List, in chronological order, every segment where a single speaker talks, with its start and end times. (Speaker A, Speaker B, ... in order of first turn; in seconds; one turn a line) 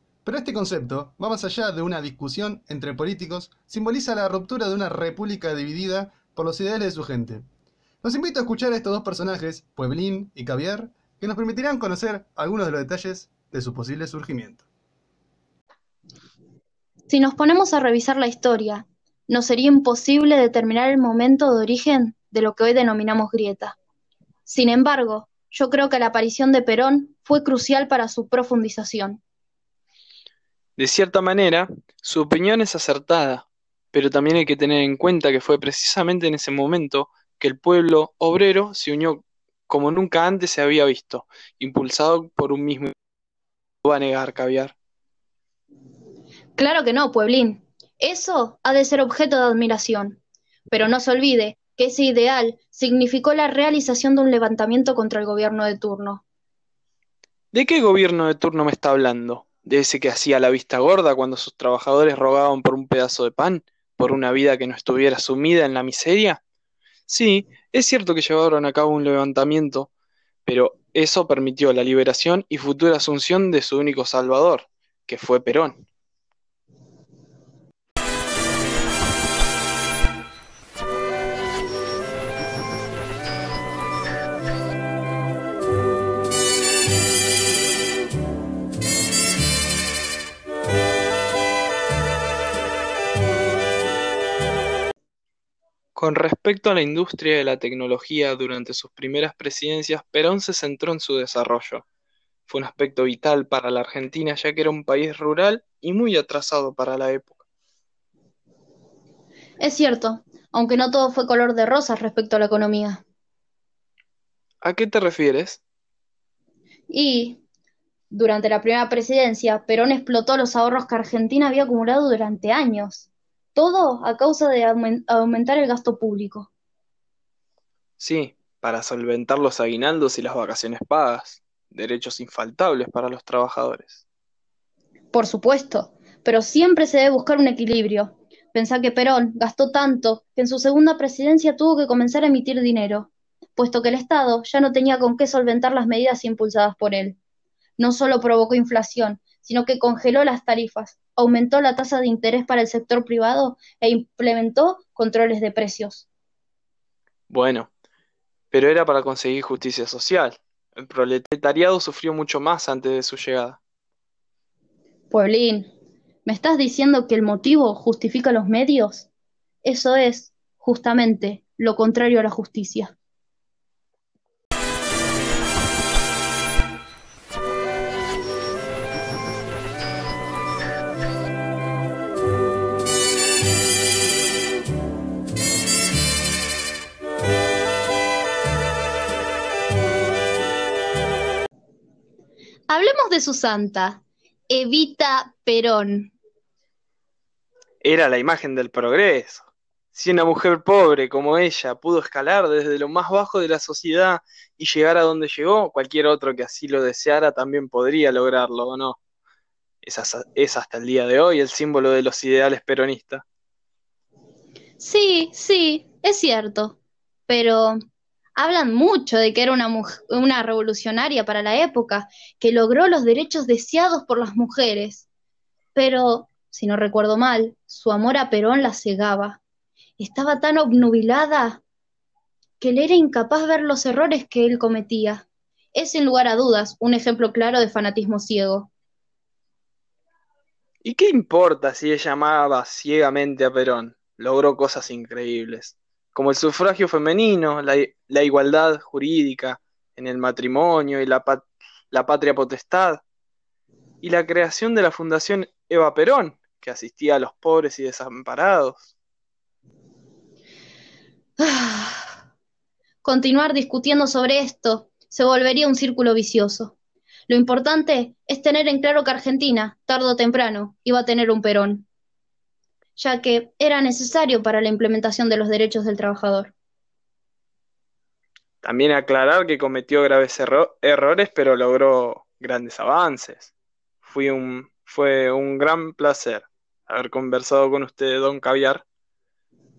Speaker A: 0.2-7.5
Speaker A: 8.0-14.7
Speaker B: 17.1-23.8
Speaker B: 24.5-29.2
Speaker C: 30.8-42.9
Speaker C: 43.9-44.8
Speaker B: 46.5-56.2
Speaker C: 57.5-66.4
Speaker C: 67.1-69.9
Speaker C: 70.5-75.8
Speaker C: 96.0-101.8
Speaker C: 102.5-107.5
Speaker B: 109.6-113.0
Speaker C: 114.6-115.6
Speaker B: 116.9-117.4
Speaker B: 118.1-126.5
Speaker C: 128.0-134.0
Speaker B: 135.1-147.2
Speaker B: 147.8-156.1
Speaker C: 157.3-157.7
Speaker C: 158.5-163.6
Speaker B: 165.1-165.7
Speaker B: 166.2-169.1
Speaker B: 169.6-172.9
Speaker B: 192.7-196.1
Speaker C: 197.8-209.0
Speaker C: 209.8-213.2
Speaker B: 214.8-217.8
Speaker B: 218.4-225.1
Speaker B: 225.8-229.4
Speaker B: 230.0-231.6
Speaker B: 232.6-238.7
Speaker C: 240.8-253.0
Speaker C: 254.0-258.9
Speaker B: 261.4-262.1
Speaker B: 263.0-266.8
Speaker B: 267.3-271.9
Speaker B: 273.0-276.5
Speaker C: 278.6-288.9